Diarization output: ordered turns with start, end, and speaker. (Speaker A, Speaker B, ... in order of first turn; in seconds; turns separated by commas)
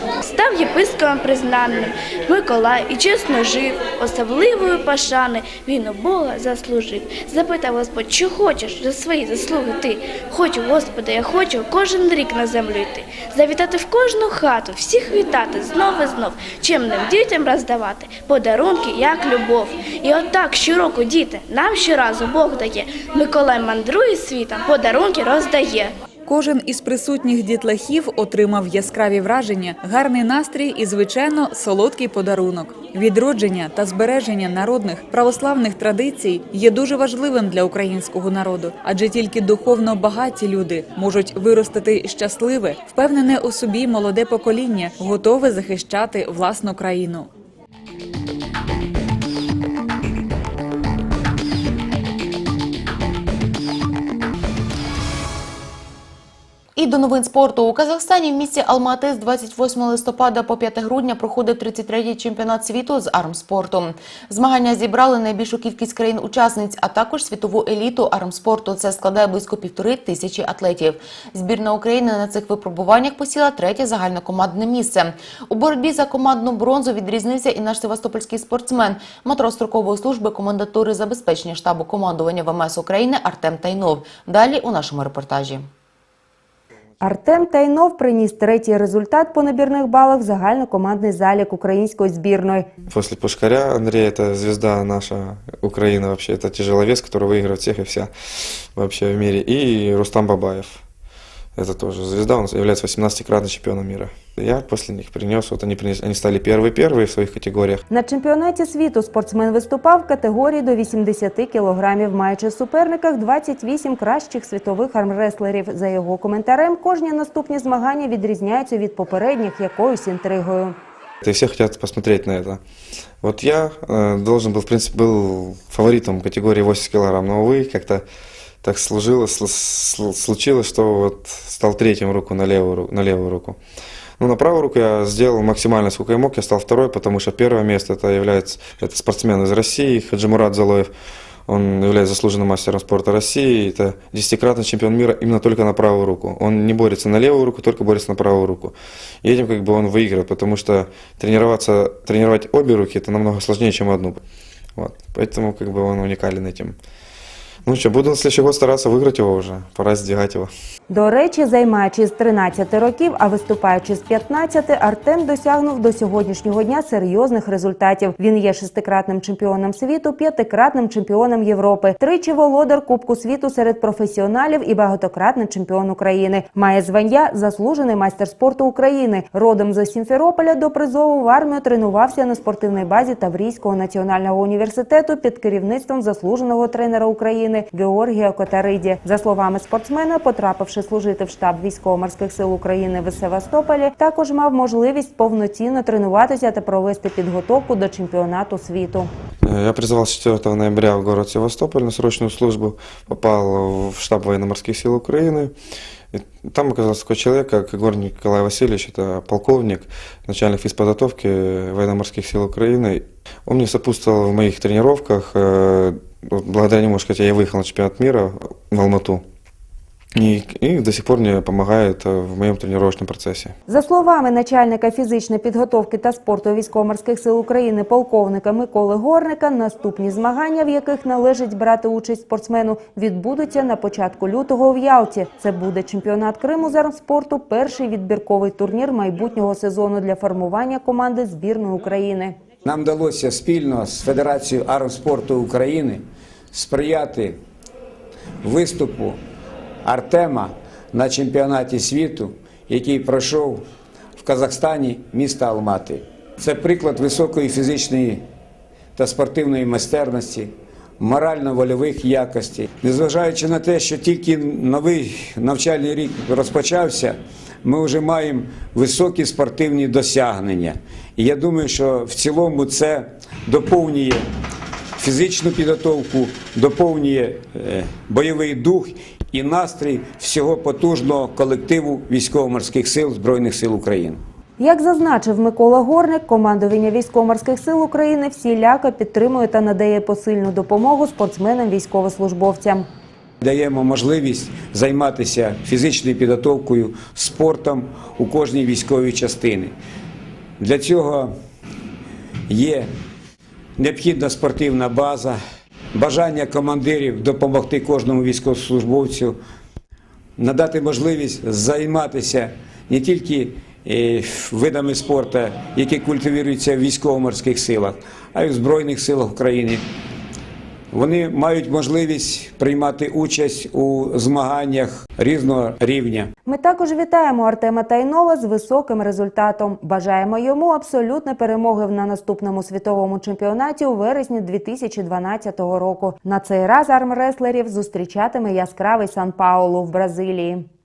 Speaker A: 0.2-25.9, Speaker B: 26.2-47.3, Speaker C: 56.8-85.7, Speaker D: 87.0-92.7, Speaker E: 92.9-98.1, Speaker E: 98.7-100.8, Speaker E: 101.5-107.8, Speaker D: 107.9-120.8, Speaker E: 121.2-122.6, Speaker E: 123.2-128.0, Speaker E: 128.6-133.6, Speaker E: 134.2-140.9, Speaker E: 141.5-154.2, Speaker E: 154.8-156.8, Speaker E: 157.6-160.5, Speaker D: 160.9-199.1, Speaker E: 199.4-205.5, Speaker E: 206.1-219.2, Speaker E: 220.2-223.5, Speaker D: 223.7-242.4, Speaker F: 242.6-247.4, Speaker F: 248.4-249.2, Speaker F: 249.8-253.6, Speaker F: 254.2-258.2, Speaker F: 258.9-274.3, Speaker F: 275.0-284.2, Speaker D: 284.6-292.9, Speaker F: 293.4-299.7, Speaker F: 300.6-301.3, Speaker F: 302.5-302.9, Speaker F: 303.8-305.4, Speaker F: 305.9-309.4, Speaker F: 310.4-319.8, Speaker F: 320.9-326.3, Speaker D: 326.4-340.6